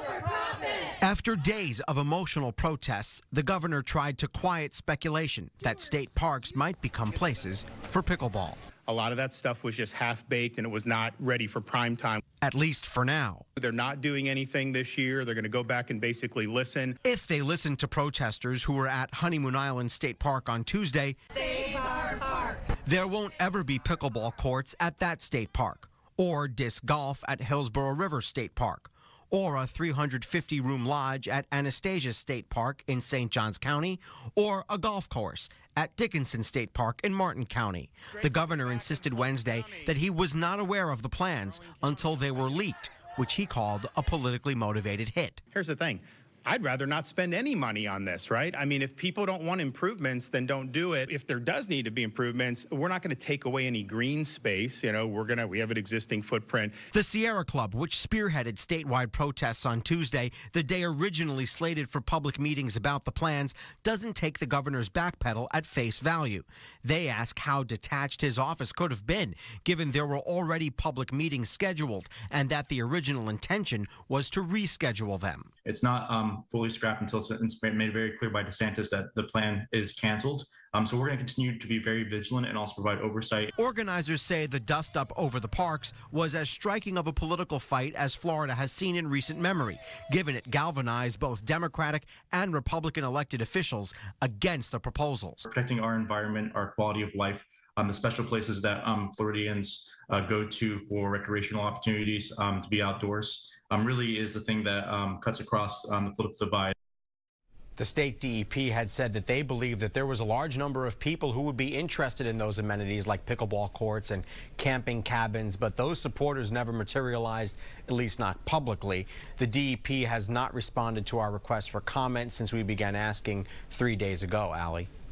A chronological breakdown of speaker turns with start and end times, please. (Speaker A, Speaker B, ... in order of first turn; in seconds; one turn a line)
Speaker A: 1.0-8.6
Speaker B: 8.8-12.2
Speaker A: 12.4-13.4
Speaker B: 13.6-17.0
Speaker A: 17.0-22.1
Speaker A: 22.8-45.4
Speaker B: 45.5-56.8
Speaker A: 56.9-75.5
Speaker C: 75.6-83.5
Speaker A: 83.6-95.5
Speaker C: 95.5-106.7
Speaker A: 107.8-124.9